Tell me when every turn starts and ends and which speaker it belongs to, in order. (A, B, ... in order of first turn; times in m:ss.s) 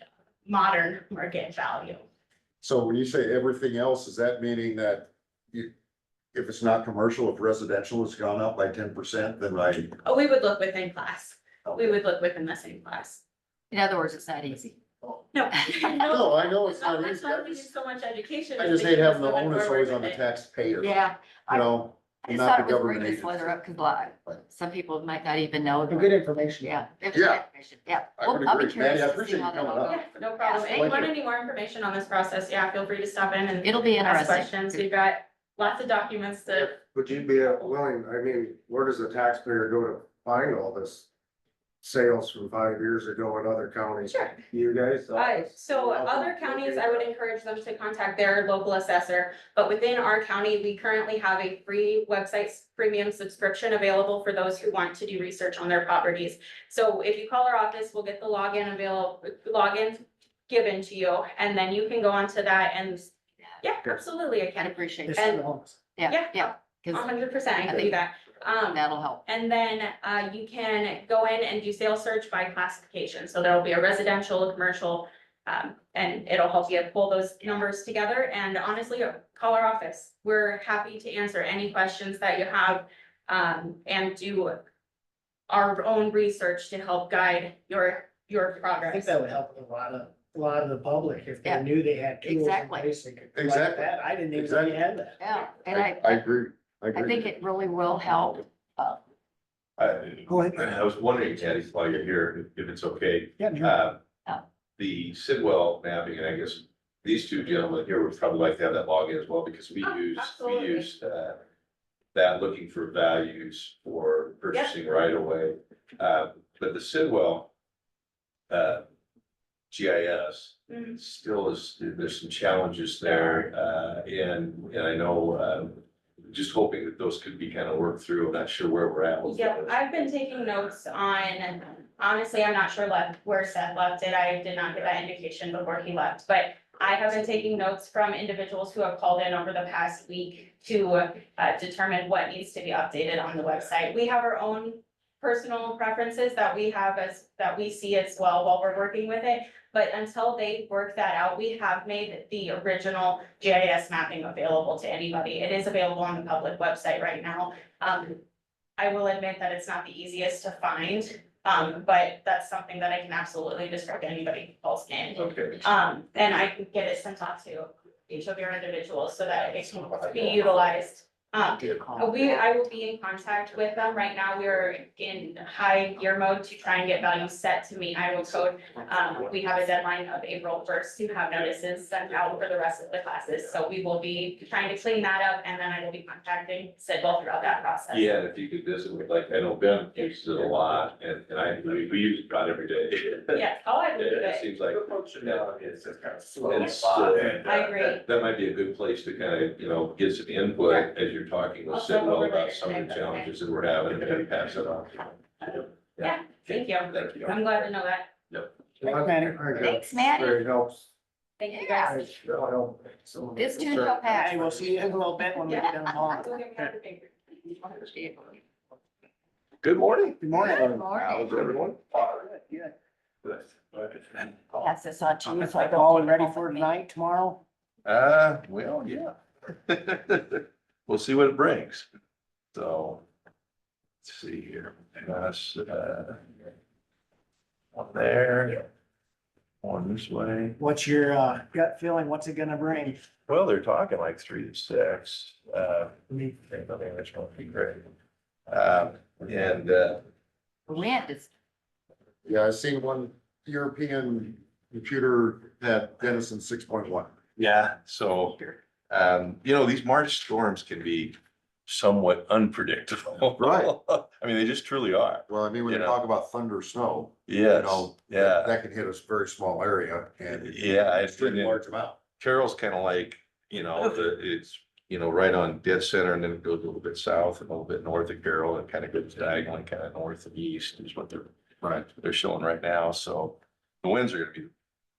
0:00.4-0:02.0 A
0:02.6-0:05.7 B
0:06.3-0:09.9 B
0:10.0-0:13.2 A
0:13.7-0:14.8 C
0:15.3-0:20.2 A
0:16.0-0:17.7 B
0:18.6-0:23.6 B
0:20.8-0:21.6 C
0:22.3-0:26.1 C
0:25.9-0:26.9 D
0:26.6-0:31.0 C
0:27.1-0:27.4 B
0:28.2-0:31.1 B
0:29.8-0:36.8 A
0:33.6-0:34.8 C
0:36.5-0:41.1 E
0:41.8-0:47.1 E
0:44.1-0:44.4 A
0:45.1-1:05.4 A
1:04.6-1:05.2 C
1:05.1-1:05.9 D
1:06.1-1:24.6 A
1:06.2-1:06.9 C
1:08.8-1:09.2 C
1:25.5-1:29.1 A
1:28.8-1:35.2 D
1:32.2-1:32.8 C
1:33.3-1:34.8 B
1:35.2-1:36.2 C
1:35.7-1:37.2 B
1:36.9-1:39.0 C
1:39.8-1:44.0 F
1:40.3-1:40.7 D
1:43.4-1:43.8 D
1:44.8-1:51.4 F
1:49.8-1:50.9 A
1:52.1-1:57.5 F
1:58.5-1:58.8 F
1:59.7-2:09.8 F
2:00.7-2:01.0 A
2:03.0-2:03.4 A
2:09.2-2:38.2 A
2:38.8-3:08.1 A
2:45.2-2:45.6 F
3:07.9-3:13.4 F
3:13.3-3:14.5 A
3:14.0-3:27.4 F
3:16.3-3:17.4 B
3:17.4-3:18.0 A
3:21.7-3:23.3 A
3:26.0-3:28.1 A
3:28.8-3:29.8 D
3:28.8-3:30.9 E
3:29.6-3:30.4 C
3:31.4-3:32.0 A
3:31.5-3:32.0 C
3:31.8-3:34.4 E
3:33.4-3:34.4 C
3:34.0-3:36.7 D
3:35.5-3:37.1 A
3:37.7-3:38.4 C
3:39.6-3:42.2 F
3:40.2-3:41.0 D
3:40.4-3:41.3 C
3:42.3-3:42.6 D
3:43.2-3:44.4 F
3:44.6-3:46.6 C
3:45.2-3:47.4 D
3:47.8-3:49.1 F
3:49.6-3:51.8 F
3:52.5-3:53.0 F
3:54.0-3:56.2 F
3:57.7-3:58.7 F
3:59.6-4:00.6 F
4:00.6-4:03.0 D
4:03.3-4:07.9 F
4:08.5-4:10.0 F
4:10.7-4:11.3 C
4:12.2-4:17.1 B
4:17.4-4:26.0 F
4:23.4-4:23.7 B
4:25.3-4:32.0 B
4:27.3-4:28.6 F
4:30.3-4:31.6 F
4:32.2-4:44.5 F